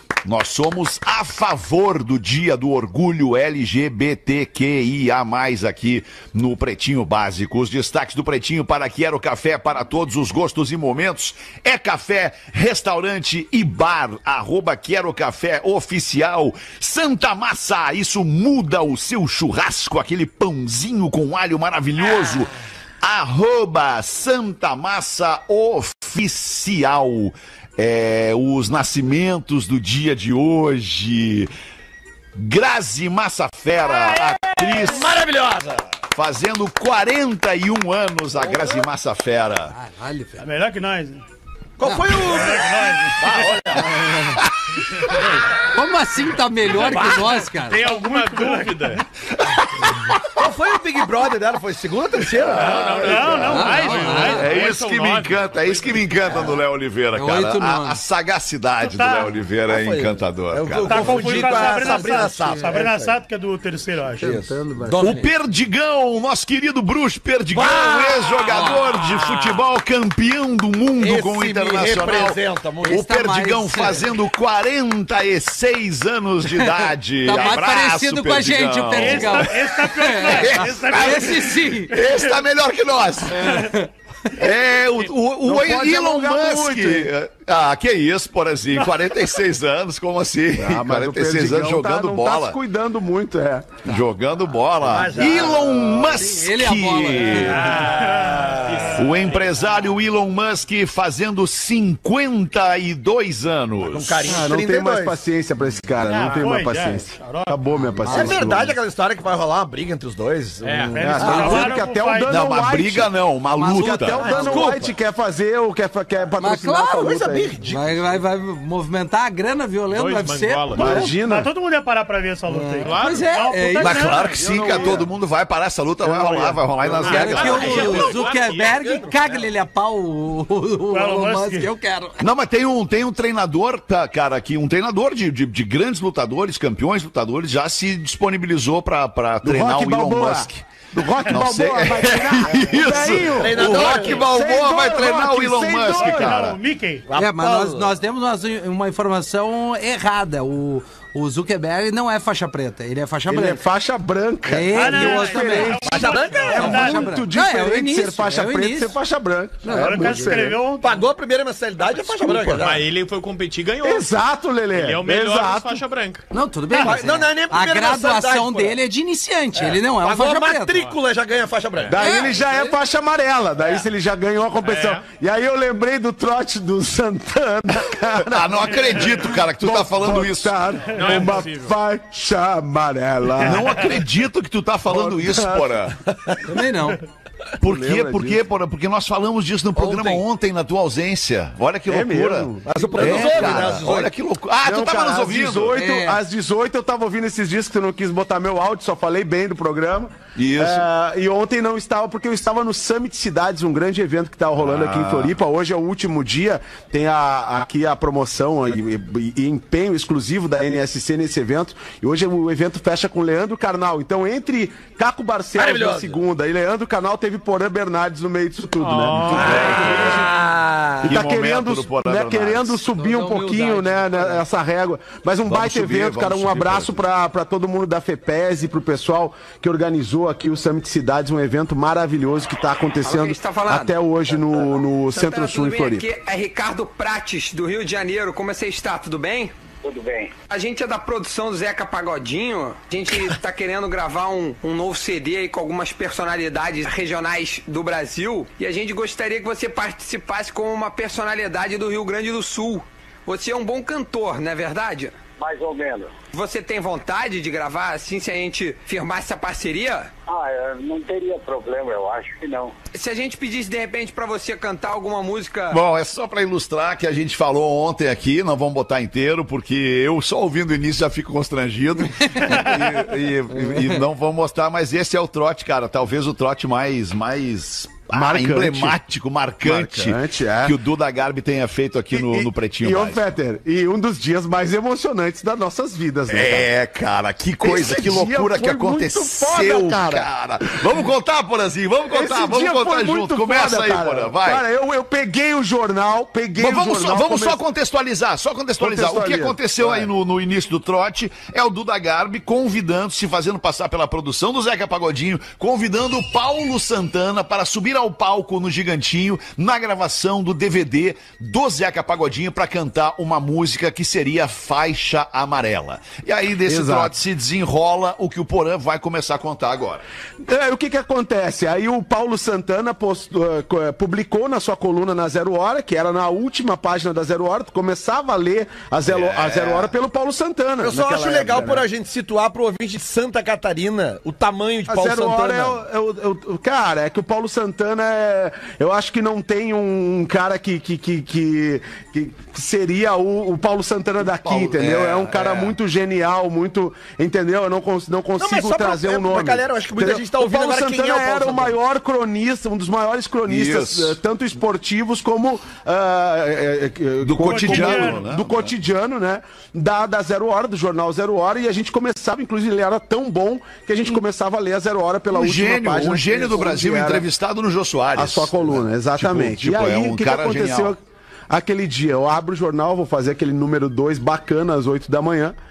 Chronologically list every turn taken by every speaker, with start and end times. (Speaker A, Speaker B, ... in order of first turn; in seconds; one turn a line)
Speaker A: 0.2-22.5
Speaker A: 23.0-31.5
Speaker A: 32.4-35.1
Speaker B: 34.2-34.8
Speaker C: 34.8-35.9
Speaker A: 36.1-39.7
Speaker C: 38.4-38.8
Speaker D: 39.8-40.4
Speaker B: 40.4-41.2
Speaker C: 41.8-44.2
Speaker D: 41.9-42.3
Speaker B: 42.1-43.5
Speaker D: 43.9-44.4
Speaker D: 45.6-47.9
Speaker C: 46.7-47.4
Speaker B: 47.7-49.0
Speaker E: 47.7-49.0
Speaker A: 49.6-50.2
Speaker C: 50.3-53.1
Speaker A: 52.4-53.4
Speaker E: 52.4-56.5
Speaker B: 53.0-54.4
Speaker D: 53.4-54.5
Speaker A: 54.1-61.1
Speaker D: 57.1-58.0
Speaker B: 58.8-59.4
Speaker C: 59.7-63.1
Speaker B: 60.9-64.4
Speaker D: 60.9-62.8
Speaker D: 64.2-65.1
Speaker C: 64.2-65.3
Speaker A: 65.0-79.6
Speaker C: 67.5-69.6
Speaker C: 71.0-73.0
Speaker D: 72.9-74.1
Speaker D: 77.2-82.0
Speaker B: 78.9-82.2
Speaker A: 80.3-83.8
Speaker D: 83.5-83.9
Speaker A: 84.3-92.6
Speaker F: 85.4-87.1
Speaker F: 90.6-93.8
Speaker A: 93.8-97.7
Speaker C: 94.8-96.1
Speaker D: 96.0-97.9
Speaker E: 97.5-99.6
Speaker B: 97.6-98.8
Speaker C: 98.2-99.0
Speaker A: 98.9-104.2
Speaker C: 103.8-105.2
Speaker F: 104.2-108.8
Speaker B: 106.0-107.7
Speaker E: 106.2-106.5
Speaker D: 107.8-108.5
Speaker C: 108.1-111.6
Speaker E: 110.6-111.0
Speaker B: 110.9-112.4
Speaker F: 111.0-117.5
Speaker D: 111.2-111.7
Speaker A: 112.3-114.4
Speaker D: 113.6-114.8
Speaker C: 114.1-114.9
Speaker D: 116.4-117.2
Speaker C: 117.0-118.2
Speaker D: 117.7-121.2
Speaker E: 119.9-121.1
Speaker F: 120.8-121.5
Speaker B: 120.8-124.4
Speaker D: 122.5-124.1
Speaker E: 122.8-123.3
Speaker A: 123.8-128.0
Speaker C: 124.4-125.0
Speaker F: 124.4-125.1
Speaker F: 126.0-127.0
Speaker E: 127.0-128.9
Speaker D: 127.0-132.2
Speaker C: 127.0-129.5
Speaker B: 130.9-131.7
Speaker A: 132.2-140.6
Speaker F: 139.4-146.5
Speaker A: 141.2-146.6
Speaker C: 143.3-144.2
Speaker B: 145.8-147.1
Speaker C: 147.1-147.9
Speaker D: 147.2-153.6
Speaker F: 153.3-160.6
Speaker D: 154.5-159.0
Speaker B: 154.7-157.1
Speaker C: 155.8-156.9
Speaker D: 159.6-160.4
Speaker B: 159.7-161.0
Speaker C: 160.8-162.8
Speaker F: 162.0-162.7
Speaker E: 162.6-164.2
Speaker F: 163.8-165.8
Speaker E: 164.7-166.3
Speaker D: 166.3-170.9
Speaker B: 166.7-167.0
Speaker C: 166.8-168.8
Speaker C: 169.6-172.0
Speaker F: 171.9-183.9
Speaker D: 172.0-172.8
Speaker E: 174.6-175.1
Speaker A: 178.2-180.6
Speaker E: 180.9-181.8
Speaker A: 183.4-185.9
Speaker F: 184.9-185.7
Speaker C: 186.1-186.4
Speaker D: 186.4-187.0
Speaker A: 187.6-195.8
Speaker F: 187.6-188.5
Speaker D: 189.8-190.2
Speaker F: 191.9-193.9
Speaker C: 192.7-194.1
Speaker F: 194.6-220.3
Speaker D: 195.7-196.2
Speaker A: 200.3-200.9
Speaker A: 204.6-205.4
Speaker C: 215.6-216.2
Speaker E: 218.8-220.2
Speaker C: 219.3-221.1
Speaker A: 219.4-220.2
Speaker A: 221.0-222.8
Speaker F: 221.0-236.1
Speaker D: 222.9-224.4
Speaker A: 225.4-227.0
Speaker G: 233.0-233.9
Speaker G: 235.1-239.6
Speaker H: 239.8-240.3
Speaker G: 240.5-255.2
Speaker H: 255.4-256.1
Speaker G: 256.3-260.1
Speaker H: 260.3-262.7
Speaker G: 262.9-265.8
Speaker A: 265.7-283.3
Speaker F: 278.1-279.0
Speaker F: 279.6-280.8
Speaker F: 282.1-286.7
Speaker A: 286.3-294.6
Speaker F: 287.6-290.3
Speaker F: 292.1-297.6
Speaker A: 296.6-320.0
Speaker F: 298.8-300.1
Speaker F: 316.7-317.1
Speaker F: 320.4-331.8
Speaker A: 329.0-329.9
Speaker C: 330.8-335.8
Speaker F: 334.9-367.2
Speaker A: 344.2-345.8
Speaker C: 348.4-351.8
Speaker A: 353.5-354.2
Speaker A: 357.2-358.8
Speaker B: 357.4-358.2
Speaker A: 365.3-370.9
Speaker F: 368.1-371.0
Speaker F: 371.5-375.6